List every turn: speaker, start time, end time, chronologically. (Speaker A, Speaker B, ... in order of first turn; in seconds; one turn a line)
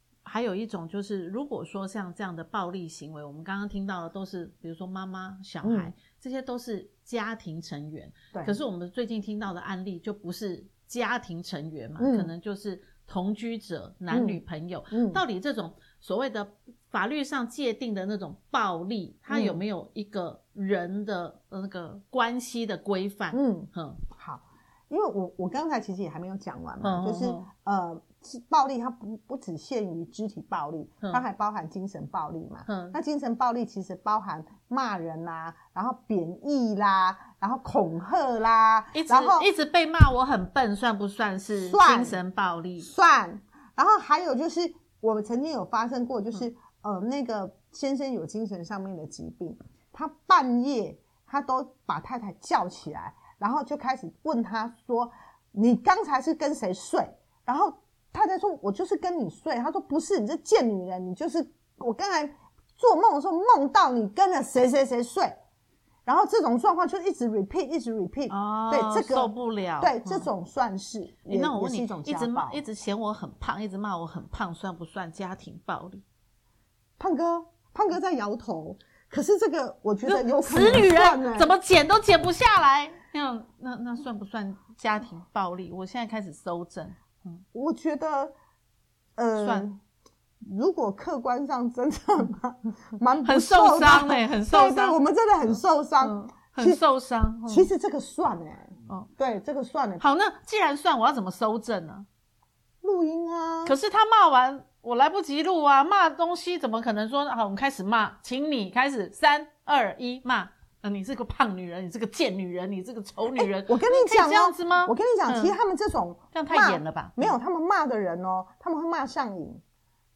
Speaker A: 0.2-24.0
Speaker B: 5.6-5.9
Speaker B: 12.0-12.3
Speaker B: 14.1-15.2
Speaker B: 19.3-19.6
Speaker B: 23.3-39.5
Speaker A: 26.8-27.5
Speaker A: 32.7-33.0
Speaker A: 38.9-42.9
Speaker B: 41.6-42.2
Speaker B: 42.8-65.3
Speaker B: 66.1-72.6
Speaker A: 68.3-70.3
Speaker A: 71.3-76.0
Speaker B: 77.0-81.5
Speaker A: 80.1-87.4
Speaker B: 87.5-88.3
Speaker B: 89.2-89.8
Speaker A: 89.3-89.7
Speaker B: 90.4-96.8
Speaker A: 93.2-97.7
Speaker B: 97.5-100.0
Speaker A: 100.0-102.1
Speaker B: 102.8-103.8
Speaker A: 103.7-115.5
Speaker B: 113.3-119.6
Speaker A: 116.3-117.4